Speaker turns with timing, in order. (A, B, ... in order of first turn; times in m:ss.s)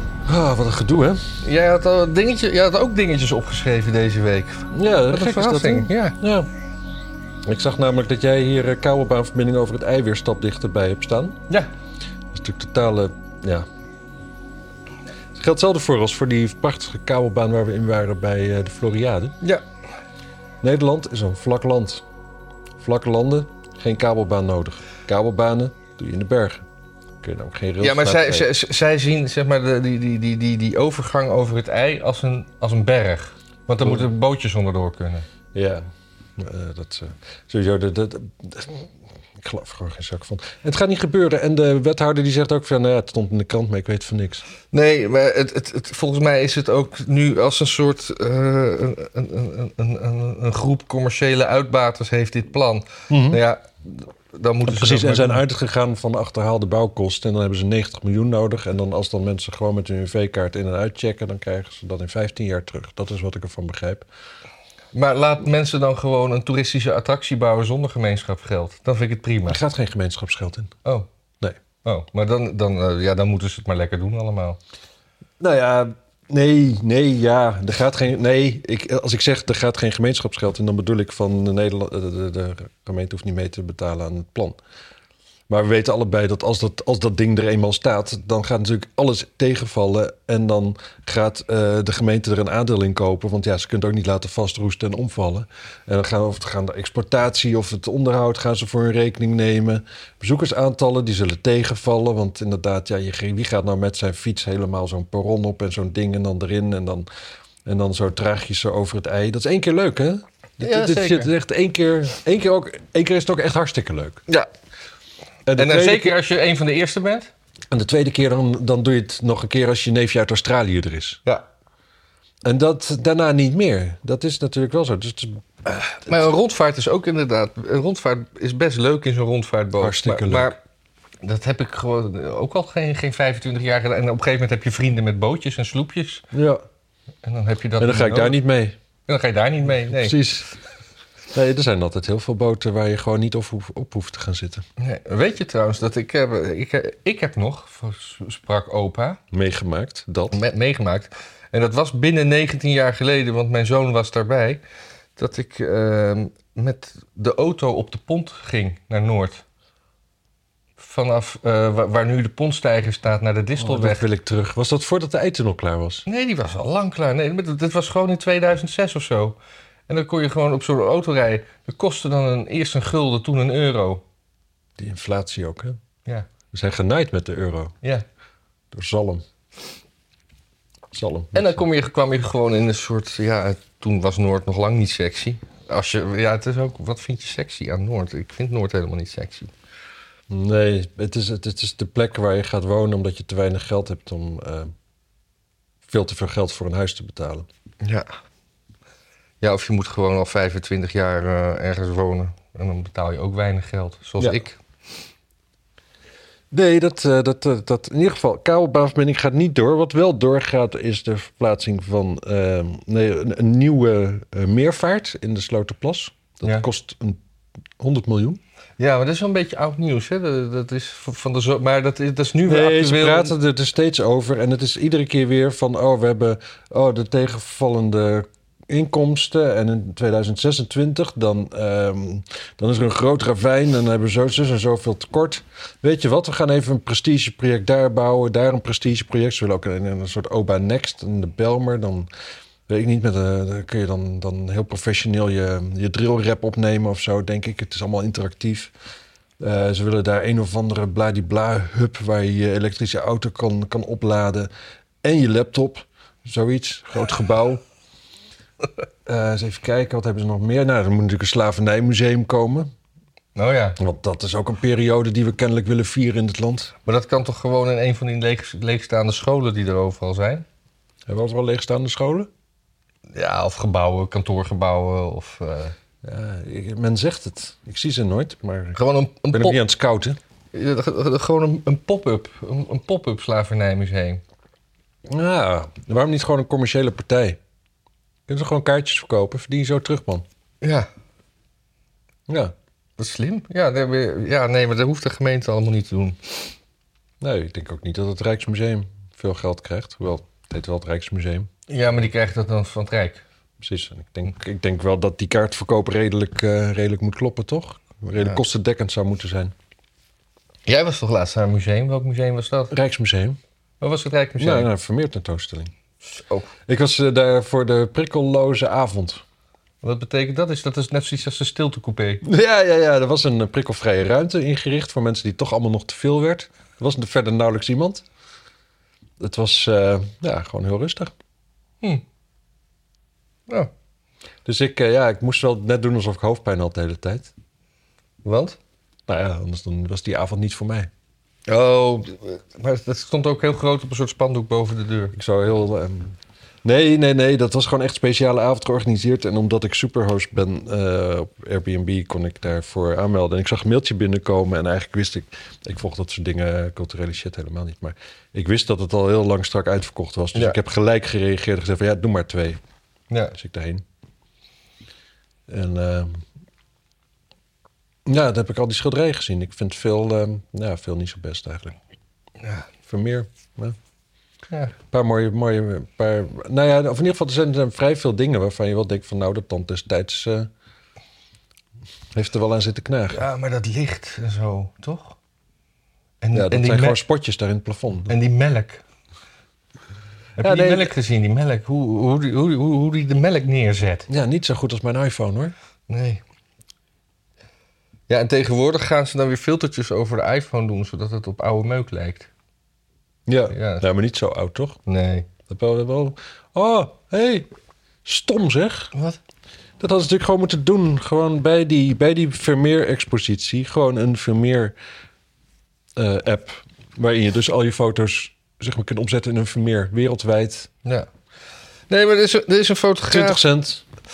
0:00.3-0:01.2 A
0:01.4-0:06.2 B
0:04.7-0:06.5 A
0:07.4-0:11.4 A
0:12.3-0:13.7 A
0:15.3-0:19.4 A
0:20.6-0:22.0 A
0:22.8-0:26.6 A
0:27.2-0:28.5 A
0:27.8-0:35.3 B
0:33.8-0:34.1 A
0:35.5-0:44.4 A
0:44.7-0:55.4 B
0:53.1-0:53.4 A
0:54.7-1:04.1 A
1:04.9-1:09.6 B
1:09.5-1:10.7 A
1:11.8-1:14.6 B
1:15.4-1:24.6 A
1:25.5-1:47.1 A
1:47.7-1:54.2 A
1:50.6-1:51.3 B
1:55.5-1:56.2 A
1:55.6-1:57.3 B
1:57.7-2:01.2 A
2:02.4-2:06.3 A
2:06.1-2:10.6 B
2:09.8-2:10.5 A
2:11.2-2:16.3 B
2:16.3-2:16.6 A
2:17.2-2:18.4 B
2:17.8-2:18.8 A
2:19.1-2:20.2 B
2:19.9-2:20.5 A
2:21.3-2:24.6 A
2:24.8-2:29.2 B
2:29.3-2:30.4 A
2:30.3-2:34.6 B
2:35.2-2:39.4 B
2:40.8-2:44.0 B
2:43.6-2:46.1 A
2:46.1-2:49.4 B
2:49.9-2:54.0 B
2:54.8-2:55.8 A
2:56.5-2:57.8 A
2:58.7-2:59.2 A
3:00.9-3:01.6 A
3:01.4-3:09.5 B
3:10.3-3:14.7 A
3:15.9-3:17.5 A
3:17.8-3:18.1 B
3:19.4-3:24.6 B
3:26.5-3:37.2 A
3:37.8-3:38.4 A
3:38.8-3:43.3 B
3:42.5-4:02.1 A
4:02.7-4:08.7 A
4:09.4-4:14.5 A
4:15.0-4:17.6 A
4:19.1-4:22.7 A
4:23.4-4:23.8 B
4:23.8-4:26.8 A
4:26.9-4:30.4 B
4:31.1-4:32.3 A
4:33.1-4:35.7 B
4:36.0-4:38.8 A
4:38.8-4:39.6 B
4:39.3-4:40.2 A
4:40.5-4:44.2 B
4:45.1-4:47.4 A
4:48.3-4:50.2 A
4:50.6-4:50.9 B
4:52.3-4:52.5 A
4:53.0-4:56.5 B
4:57.2-5:01.5 A
5:01.7-5:03.2 B
5:03.6-5:09.5 A
5:10.7-5:12.7 B
5:12.7-5:13.4 A
5:13.8-5:14.7 B
5:14.4-5:15.7 A
5:16.2-5:16.5 B
5:16.7-5:19.2 A
5:19.8-5:22.2 B
5:22.2-5:28.0 A
5:29.2-5:31.1 A
5:34.4-5:37.3 A
5:38.2-5:38.6 B
5:39.1-5:40.9 A
5:41.5-5:45.2 B
5:45.1-6:02.6 A
6:03.3-6:03.8 A
6:05.5-6:06.2 A
6:08.1-6:11.8 A
6:12.8-6:13.8 A
6:14.5-6:14.8 B
6:14.9-6:20.5 A
6:22.1-6:23.2 A
6:23.1-6:25.2 B
6:26.2-6:27.0 B
6:26.3-6:28.1 A
6:28.1-6:28.8 B
6:30.4-6:34.1 B
6:30.4-6:30.9 A
6:34.1-6:35.5 A
6:35.9-6:36.2 B
6:38.1-6:42.3 B
6:43.3-6:44.8 A
6:43.5-6:43.9 B
6:44.9-6:45.3 B
6:45.5-6:47.5 A
6:48.0-6:48.9 A
6:49.8-6:54.8 A
6:56.0-7:00.7 A
7:01.9-7:03.4 B
7:03.1-7:03.8 A